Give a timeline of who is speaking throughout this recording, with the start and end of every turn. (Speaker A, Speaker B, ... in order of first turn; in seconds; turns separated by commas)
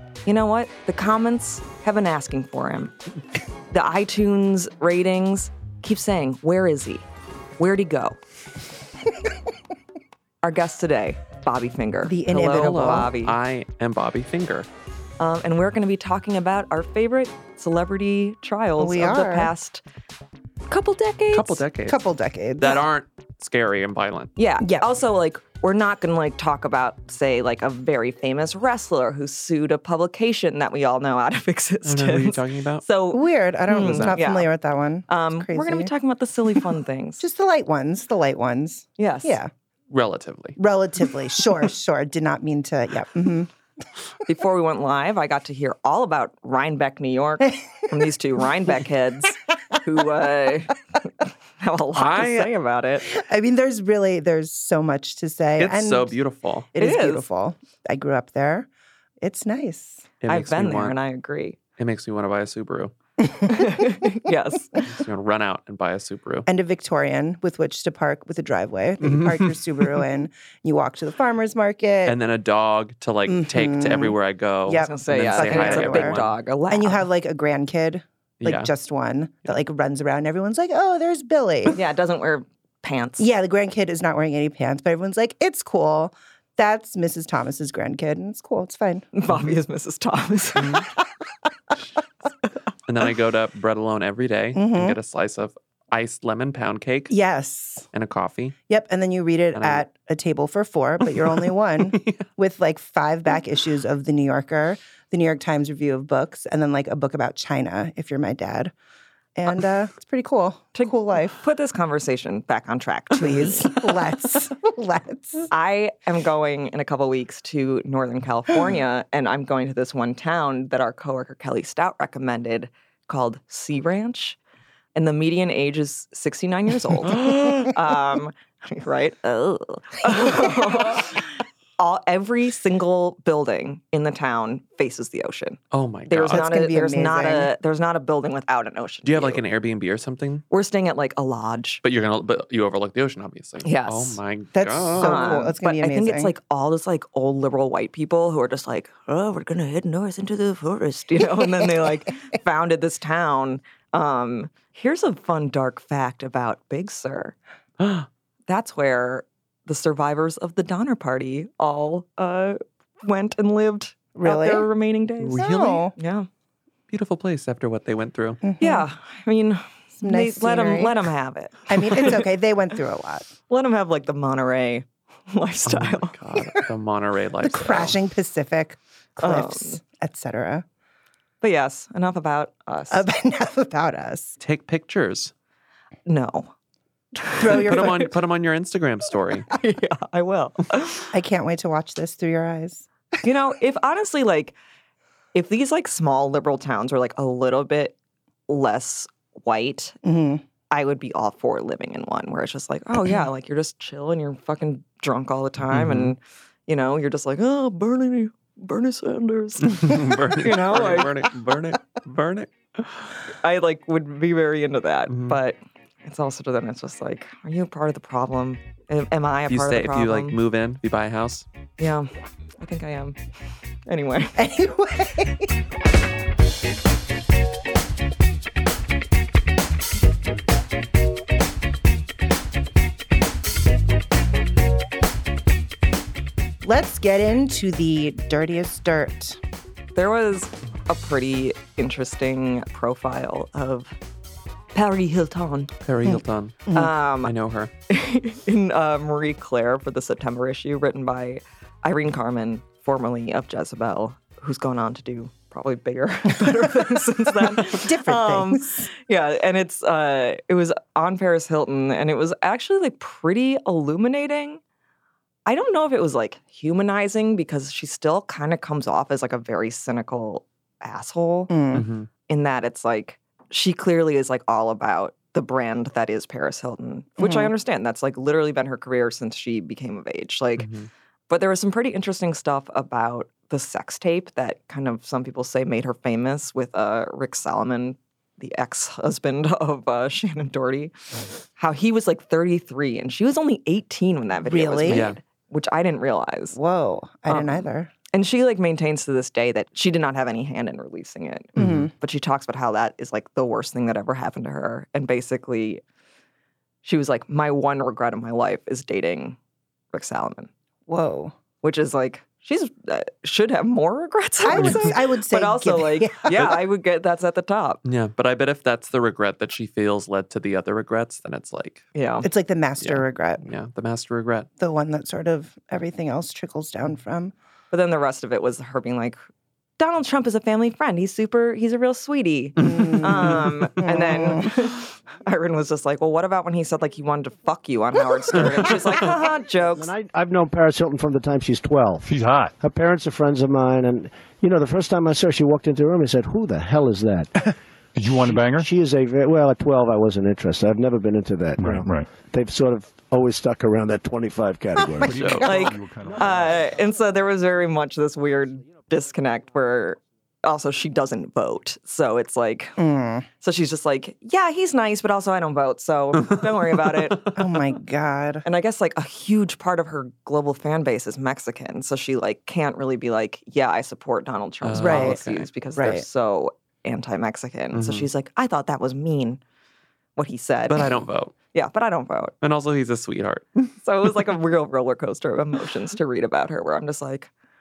Speaker A: 0.3-2.9, Speaker A: 3.7-7.1, Speaker A: 7.6-8.2, Speaker A: 10.4-13.4, Speaker B: 12.1-13.1, Speaker C: 12.4-14.7, Speaker A: 15.2-19.8, Speaker B: 18.8-19.5, Speaker A: 20.7-21.6, Speaker C: 21.3-22.0, Speaker B: 21.9-22.8, Speaker C: 22.6-24.3, Speaker A: 24.4-34.5, Speaker B: 24.6-24.9, Speaker C: 31.8-32.8, Speaker B: 33.1-35.9, Speaker C: 33.8-34.2, Speaker A: 35.1-37.2, Speaker B: 37.2-39.5, Speaker A: 39.0-39.4, Speaker C: 39.9-40.6, Speaker B: 40.6-43.5, Speaker A: 44.3-50.8, Speaker A: 51.6-53.1, Speaker C: 52.0-52.5, Speaker B: 53.1-56.2, Speaker C: 55.6-56.7, Speaker B: 56.7-58.7, Speaker A: 56.8-57.2, Speaker B: 59.2-60.1, Speaker C: 60.2-61.0, Speaker A: 60.3-61.6, Speaker C: 61.8-62.9, Speaker B: 63.2-63.9, Speaker A: 63.5-64.9, Speaker C: 64.9-66.5, Speaker B: 66.5-72.2, Speaker C: 69.0-70.0, Speaker C: 72.0-76.3, Speaker B: 73.3-76.2, Speaker A: 74.8-77.1, Speaker B: 76.7-81.8, Speaker C: 78.4-78.7, Speaker A: 81.7-83.3, Speaker B: 83.2-89.1, Speaker A: 89.1-90.8, Speaker C: 92.9-97.1, Speaker B: 94.5-95.0, Speaker B: 97.1-97.9, Speaker C: 97.9-98.6, Speaker B: 98.7-108.7, Speaker C: 99.5-99.8, Speaker C: 101.1-102.3, Speaker B: 109.4-111.4, Speaker A: 110.8-113.9, Speaker B: 113.2-115.5, Speaker A: 115.5-124.4, Speaker A: 125.0-131.3, Speaker A: 131.8-139.4, Speaker C: 135.7-136.5, Speaker B: 136.3-137.5, Speaker C: 139.1-140.4, Speaker A: 140.5-141.8, Speaker C: 141.8-145.4, Speaker A: 143.6-144.2, Speaker B: 144.6-146.3, Speaker A: 145.0-157.4, Speaker C: 157.8-158.1, Speaker A: 158.5-166.3, Speaker B: 164.2-164.7, Speaker C: 165.2-165.8, Speaker B: 165.4-165.9, Speaker C: 166.9-168.4, Speaker B: 168.4-168.9, Speaker A: 168.6-172.3, Speaker B: 170.0-171.0, Speaker B: 171.7-173.3, Speaker A: 173.5-176.2, Speaker C: 175.7-177.9, Speaker B: 177.4-180.7, Speaker A: 179.2-179.8, Speaker A: 181.4-183.1, Speaker B: 182.9-184.3, Speaker C: 184.4-185.3, Speaker A: 186.1-186.5, Speaker A: 187.2-188.1, Speaker B: 187.4-188.1, Speaker C: 187.7-189.5, Speaker A: 189.5-191.1, Speaker B: 191.1-192.9, Speaker A: 193.2-194.6, Speaker A: 195.3-197.9, Speaker A: 198.5-200.0, Speaker B: 200.0-200.4, Speaker A: 200.7-211.1, Speaker C: 205.7-206.1, Speaker C: 209.6-213.2, Speaker A: 213.4-220.4, Speaker C: 215.1-215.4, Speaker C: 219.5-221.5, Speaker A: 221.8-222.1, Speaker A: 222.6-223.2, Speaker A: 223.9-224.4, Speaker B: 224.4-225.5, Speaker B: 236.6-239.4, Speaker A: 239.9-243.9, Speaker A: 244.7-245.7, Speaker C: 245.8-247.7, Speaker B: 246.1-246.9, Speaker A: 246.7-247.3, Speaker A: 247.9-264.6, Speaker B: 256.5-256.8, Speaker B: 257.5-258.9, Speaker A: 265.5-271.5, Speaker B: 271.5-271.9, Speaker C: 271.7-272.1, Speaker A: 272.3-280.7, Speaker B: 277.2-277.5, Speaker C: 280.6-280.9, Speaker A: 281.3-290.9, Speaker A: 291.6-296.6, Speaker B: 294.4-295.1, Speaker C: 294.9-295.2, Speaker B: 296.6-297.9, Speaker A: 297.3-305.8, Speaker B: 301.6-301.9, Speaker C: 301.6-301.9, Speaker A: 306.8-309.4, Speaker A: 309.9-310.5, Speaker B: 310.9-311.4, Speaker A: 311.6-317.8, Speaker B: 314.4-316.5, Speaker C: 314.5-314.9, Speaker C: 316.3-316.6, Speaker C: 317.9-321.9, Speaker A: 321.9-322.3, Speaker B: 322.2-323.5, Speaker C: 322.8-324.5, Speaker B: 324.6-327.3, Speaker A: 327.7-329.2, Speaker A: 329.8-339.9, Speaker B: 332.6-334.5, Speaker C: 332.6-333.5, Speaker C: 338.3-339.0, Speaker D: 339.8-347.5, Speaker E: 342.0-342.6, Speaker E: 347.9-348.7, Speaker D: 348.3-355.5, Speaker E: 351.6-352.1, Speaker E: 355.0-356.6, Speaker C: 355.1-355.7, Speaker A: 355.4-362.8, Speaker B: 362.8-363.3, Speaker A: 363.4-367.2, Speaker C: 366.2-367.5, Speaker B: 367.3-368.4, Speaker A: 368.4-379.4, Speaker C: 374.6-375.5, Speaker B: 374.8-375.2, Speaker B: 375.8-376.1, Speaker C: 377.7-378.1, Speaker A: 380.2-380.9, Speaker C: 380.7-381.3, Speaker A: 381.5-382.3, Speaker C: 382.4-384.2, Speaker A: 383.8-387.3